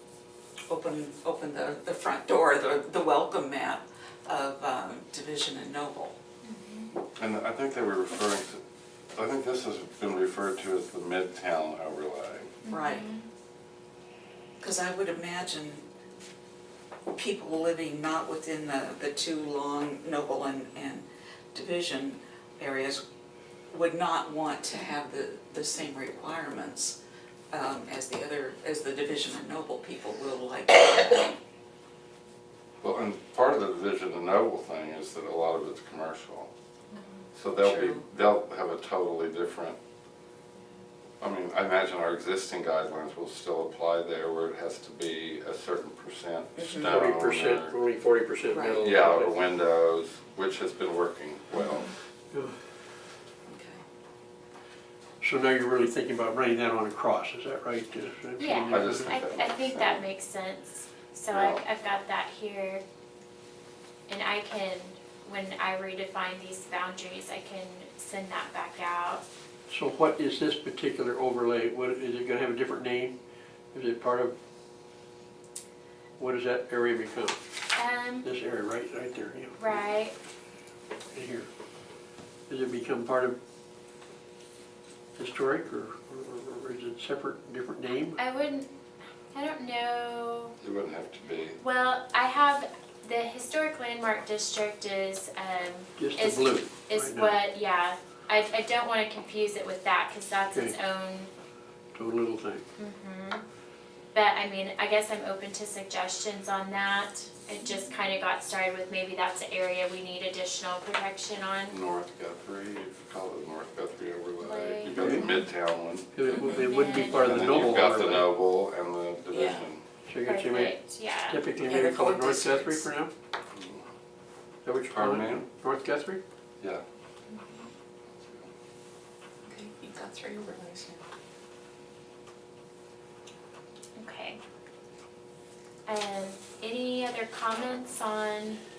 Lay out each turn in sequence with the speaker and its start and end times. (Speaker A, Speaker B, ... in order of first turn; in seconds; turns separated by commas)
Speaker A: 0.7-6.2, Speaker B: 6.4-6.9, Speaker C: 7.2-8.6, Speaker C: 9.1-12.6, Speaker B: 12.6-13.3, Speaker A: 12.7-13.1, Speaker A: 14.6-15.8, Speaker A: 17.1-23.0, Speaker A: 23.7-27.0, Speaker A: 27.5-31.4, Speaker C: 32.8-36.5, Speaker C: 37.3-39.8, Speaker A: 37.6-38.0, Speaker C: 41.2-47.7, Speaker A: 46.5-47.0, Speaker D: 46.8-49.3, Speaker A: 48.5-48.9, Speaker C: 48.8-51.9, Speaker A: 53.5-53.8, Speaker D: 55.2-59.1, Speaker B: 58.4-62.8, Speaker C: 58.7-60.0, Speaker C: 61.3-61.6, Speaker B: 64.1-69.2, Speaker D: 69.7-73.1, Speaker D: 73.7-74.3, Speaker D: 76.2-77.4, Speaker B: 77.7-78.3, Speaker D: 78.2-79.6, Speaker B: 79.6-80.1, Speaker D: 81.1-81.5, Speaker D: 82.5-83.3, Speaker D: 85.2-88.2, Speaker B: 88.2-88.7, Speaker B: 89.3-90.5, Speaker C: 90.6-91.6, Speaker B: 91.6-101.3, Speaker D: 96.0-97.3, Speaker D: 101.9-102.6, Speaker B: 102.8-103.4, Speaker B: 104.1-111.7, Speaker C: 111.7-116.1, Speaker B: 114.4-115.0, Speaker D: 115.0-115.4, Speaker A: 115.0-115.3, Speaker D: 116.1-118.2, Speaker A: 116.3-116.7, Speaker B: 116.3-117.4, Speaker C: 117.2-119.8, Speaker A: 119.3-119.7, Speaker D: 120.1-120.8, Speaker B: 120.2-121.4, Speaker D: 121.3-123.1, Speaker A: 121.7-122.9, Speaker C: 123.5-123.8, Speaker D: 124.6-126.2, Speaker C: 124.9-125.5, Speaker B: 127.3-127.7, Speaker C: 128.2-128.5, Speaker A: 129.5-131.1, Speaker B: 133.9-134.4, Speaker B: 135.9-138.6